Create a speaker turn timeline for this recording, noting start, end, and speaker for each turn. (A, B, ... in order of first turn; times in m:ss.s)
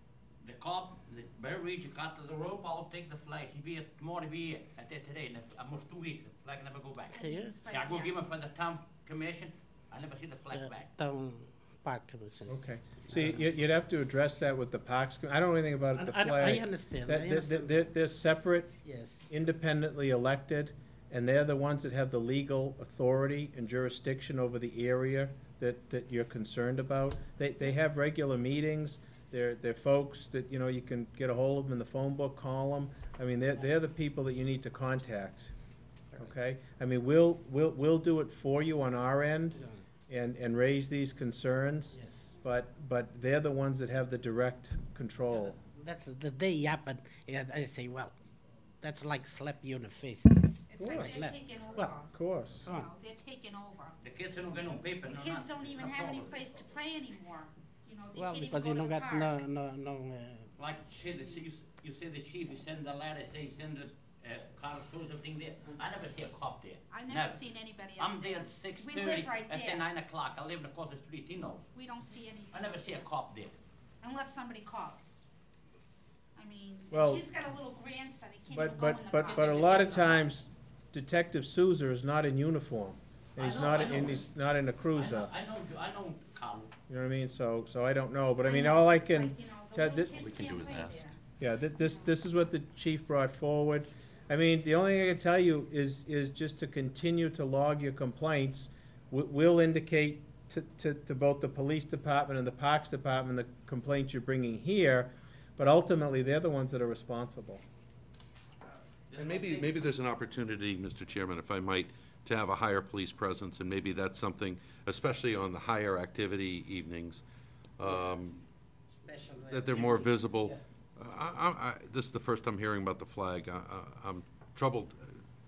0:00.4-0:10.9 A
0:07.1-0:08.2 B
0:07.2-0:07.6 C
0:10.5-0:13.5 C
0:12.5-0:35.5 D
0:16.0-0:17.9 C
0:18.8-0:19.3 C
0:36.2-0:45.6 D
0:39.6-0:39.8 C
0:41.9-0:42.3 C
0:45.3-0:48.2 C
0:48.8-0:52.0 C
0:50.7-0:54.0 B
0:50.8-0:51.2 D
0:52.1-0:52.7 D
0:54.0-0:56.5 A
0:55.0-0:59.5 B
0:58.1-1:00.5 C
1:00.6-1:11.7 A
1:06.9-1:09.8 B
1:11.7-1:13.1 B
1:12.5-1:13.6 A
1:14.0-1:15.2 B
1:16.4-1:19.6 B
1:16.9-1:17.3 D
1:18.5-1:25.3 D
1:19.2-1:20.3 A
1:23.4-1:24.3 A
1:24.9-1:26.7 A
1:26.9-1:30.3 D
1:28.4-1:31.2 B
1:30.1-1:31.1 E
1:31.4-1:47.6 D
1:49.1-1:49.8 A
1:49.2-1:57.2 E
1:57.8-1:58.4 E
1:57.8-1:58.2 C
1:58.9-2:00.6 C
1:59.5-2:05.2 E